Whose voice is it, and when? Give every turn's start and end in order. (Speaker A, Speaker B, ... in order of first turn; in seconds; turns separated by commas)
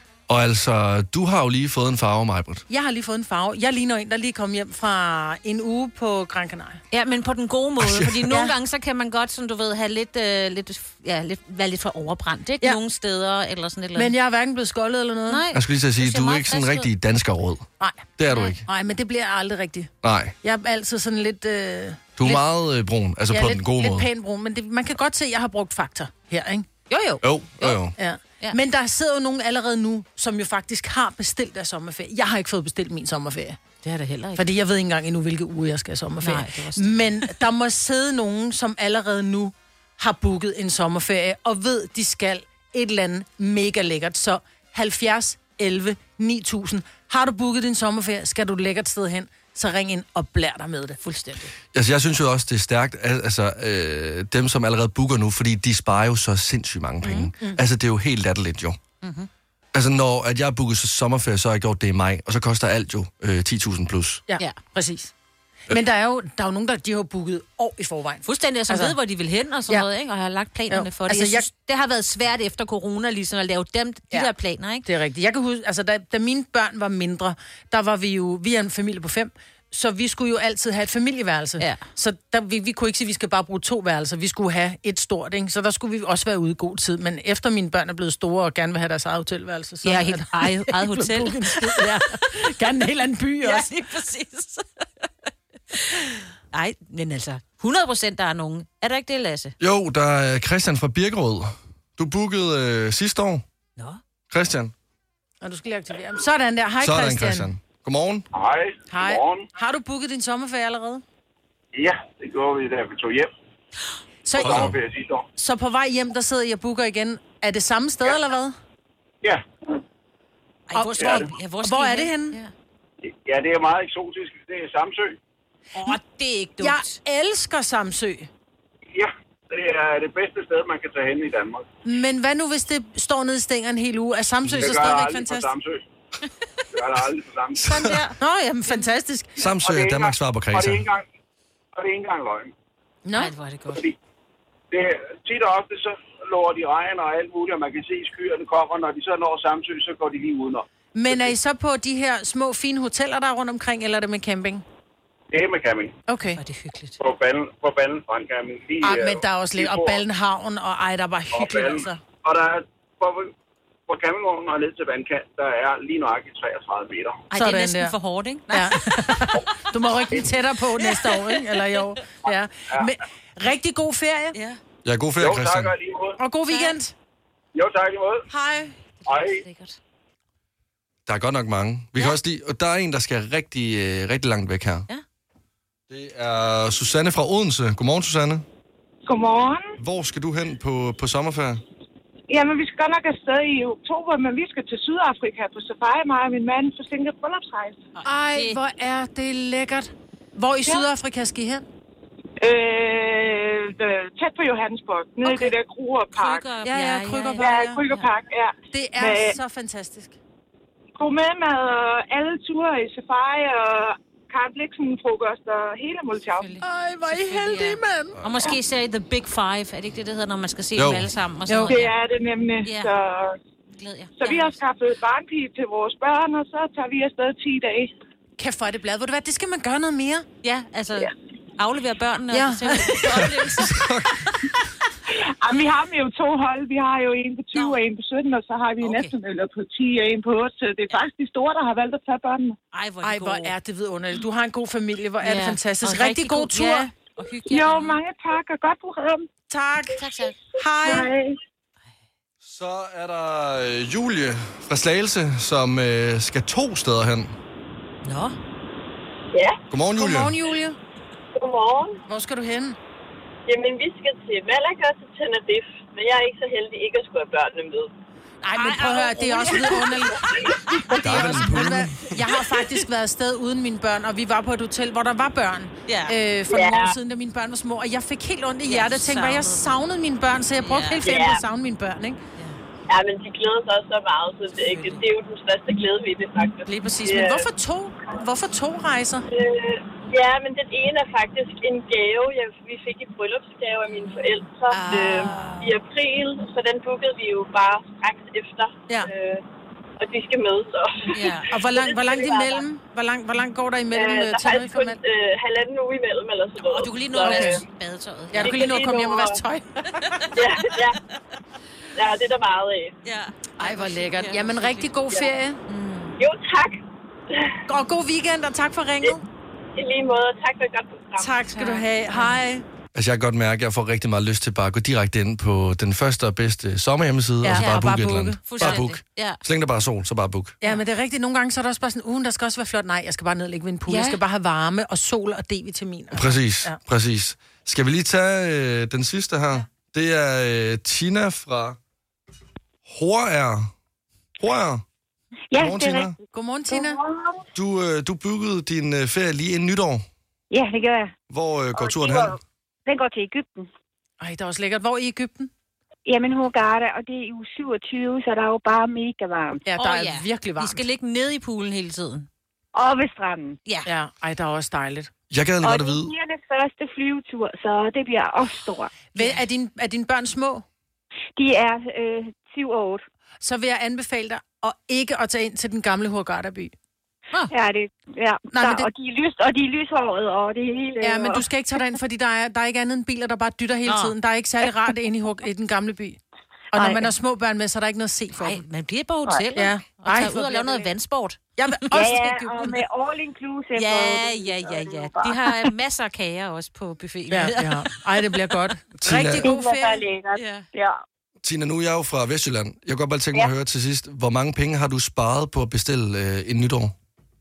Speaker A: 0.3-2.6, Speaker B: 2.7-6.8, Speaker C: 6.9-14.1, Speaker A: 7.8-8.1, Speaker B: 13.9-15.4, Speaker C: 15.3-16.9, Speaker A: 15.5-18.6, Speaker B: 17.8-18.1, Speaker C: 18.3-18.6, Speaker B: 18.6-22.4, Speaker A: 20.0-20.3, Speaker A: 22.2-24.1, Speaker B: 23.3-26.7, Speaker C: 26.9-27.8, Speaker A: 27.2-27.9, Speaker B: 28.0-33.6, Speaker C: 33.8-34.4, Speaker B: 34.4-51.5, Speaker C: 36.2-37.3, Speaker A: 51.7-58.8, Speaker C: 57.0-57.3, Speaker B: 57.1-57.6, Speaker A: 59.7-64.2, Speaker B: 64.3-65.1, Speaker B: 65.7-68.9, Speaker C: 68.2-74.8, Speaker B: 70.7-71.5, Speaker B: 74.8-93.7, Speaker C: 89.8-92.1, Speaker C: 93.4-94.6, Speaker C: 95.7-99.5, Speaker A: 99.6-103.4, Speaker A: 104.3-104.7, Speaker B: 105.4-107.5, Speaker A: 106.8-108.2, Speaker D: 108.3-109.5, Speaker B: 108.9-111.0, Speaker D: 111.7-113.3, Speaker B: 114.2-114.7, Speaker D: 114.3-115.2, Speaker A: 114.4-114.8, Speaker B: 115.3-118.5, Speaker C: 120.7-122.5, Speaker B: 120.7-122.4, Speaker D: 121.0-121.3, Speaker D: 123.0-125.2, Speaker C: 125.8-126.9, Speaker B: 126.6-128.3, Speaker D: 128.9-131.7, Speaker B: 131.8-135.5, Speaker D: 134.4-135.8, Speaker D: 136.7-137.7, Speaker A: 137.6-137.9, Speaker C: 137.6-138.1, Speaker B: 138.2-139.4, Speaker A: 139.4-140.8, Speaker D: 139.6-141.0, Speaker D: 141.8-142.5, Speaker B: 143.0-143.3, Speaker C: 143.1-143.8, Speaker D: 144.7-151.3, Speaker B: 150.9-154.6, Speaker D: 155.3-156.0, Speaker B: 156.1-156.4, Speaker C: 156.3-156.9, Speaker D: 157.0-160.0, Speaker B: 158.8-162.0, Speaker D: 161.3-163.3, Speaker D: 163.9-167.2, Speaker B: 167.3-167.9, Speaker C: 167.3-169.5, Speaker B: 168.5-174.3, Speaker C: 170.8-171.9, Speaker C: 174.3-174.6, Speaker A: 174.8-175.7, Speaker D: 175.2-176.2, Speaker B: 176.2-176.9, Speaker C: 176.5-176.8, Speaker D: 177.5-178.3, Speaker B: 178.3-178.7, Speaker C: 179.0-179.8, Speaker D: 179.1-179.4, Speaker A: 181.1-184.9, Speaker A: 185.9-188.4, Speaker E: 189.1-189.7, Speaker A: 189.8-191.6, Speaker E: 192.3-197.8, Speaker C: 198.0-198.6, Speaker B: 198.0-201.6, Speaker E: 202.4-206.5, Speaker B: 205.2-205.5, Speaker C: 206.1-208.1, Speaker B: 206.7-207.8, Speaker E: 207.4-209.4, Speaker B: 208.7-210.2, Speaker E: 210.9-216.5, Speaker C: 216.3-221.9, Speaker B: 216.6-218.2, Speaker A: 220.8-221.1, Speaker B: 221.5-221.8, Speaker E: 221.7-223.3, Speaker C: 222.6-222.9, Speaker C: 223.8-224.6, Speaker E: 224.2-227.9, Speaker B: 228.4-230.2, Speaker C: 230.4-234.4, Speaker B: 232.3-233.2, Speaker A: 233.1-234.2, Speaker E: 235.1-242.6, Speaker C: 237.5-237.8, Speaker C: 238.8-239.1, Speaker C: 242.7-243.5, Speaker B: 243.0-246.9, Speaker C: 245.2-248.0, Speaker E: 247.5-249.3, Speaker B: 249.5-250.0, Speaker C: 249.9-251.1, Speaker B: 250.6-251.1, Speaker E: 250.8-251.2, Speaker A: 252.4-257.3, Speaker C: 258.0-258.4, Speaker F: 259.3-259.6, Speaker A: 259.7-260.3, Speaker B: 259.9-260.8, Speaker F: 261.3-262.0, Speaker B: 262.1-262.8, Speaker F: 263.5-267.9, Speaker B: 268.4-270.3, Speaker C: 268.5-271.8, Speaker B: 270.9-282.2, Speaker A: 271.0-272.0, Speaker C: 272.4-272.8, Speaker C: 275.9-276.1, Speaker F: 276.5-276.9, Speaker C: 278.6-279.7, Speaker C: 280.6-281.1, Speaker F: 281.0-281.4, Speaker F: 282.9-287.5, Speaker C: 284.7-285.0, Speaker B: 286.6-289.2, Speaker F: 289.3-299.4, Speaker C: 293.9-295.5, Speaker B: 294.7-295.7, Speaker F: 300.0-302.6, Speaker C: 301.1-301.5, Speaker B: 301.5-305.0, Speaker F: 303.9-307.6, Speaker C: 306.6-308.8, Speaker B: 307.2-307.6, Speaker B: 308.3-310.3, Speaker F: 308.4-309.4, Speaker C: 310.0-310.8, Speaker F: 310.4-311.0, Speaker F: 311.9-312.9, Speaker C: 313.0-314.9, Speaker B: 313.6-315.6, Speaker C: 315.7-316.1, Speaker F: 316.2-316.8, Speaker B: 317.7-319.2, Speaker F: 319.8-321.4, Speaker B: 321.2-322.6, Speaker C: 321.5-322.4, Speaker A: 322.9-330.5, Speaker B: 327.4-328.8, Speaker C: 327.6-327.9, Speaker C: 328.5-329.4, Speaker B: 330.6-336.8, Speaker C: 333.9-334.2, Speaker A: 336.1-341.8, Speaker A: 342.8-343.7, Speaker A: 344.4-344.8, Speaker G: 345.5-346.1, Speaker A: 345.5-346.1, Speaker B: 346.3-347.0, Speaker G: 346.7-347.4, Speaker A: 347.5-350.0, Speaker G: 350.5-351.1, Speaker A: 351.3-352.4, Speaker G: 351.7-353.7, Speaker B: 354.2-355.5, Speaker G: 356.1-359.6, Speaker B: 359.6-360.8, Speaker C: 359.8-362.3, Speaker G: 362.7-363.6, Speaker B: 363.9-365.1, Speaker A: 365.3-366.1, Speaker G: 365.6-368.9, Speaker B: 369.1-370.6, Speaker G: 371.4-373.0, Speaker B: 373.4-376.7, Speaker G: 377.5-381.4, Speaker B: 378.5-378.9, Speaker B: 381.0-386.2, Speaker C: 383.9-384.1, Speaker B: 386.7-388.6, Speaker G: 386.7-387.0, Speaker C: 388.4-392.1, Speaker B: 389.5-390.9, Speaker B: 391.6-392.8, Speaker G: 391.9-395.5, Speaker C: 393.7-397.9, Speaker B: 397.3-400.1, Speaker A: 399.0-399.5, Speaker G: 399.4-401.0, Speaker C: 400.3-400.6, Speaker A: 401.4-406.9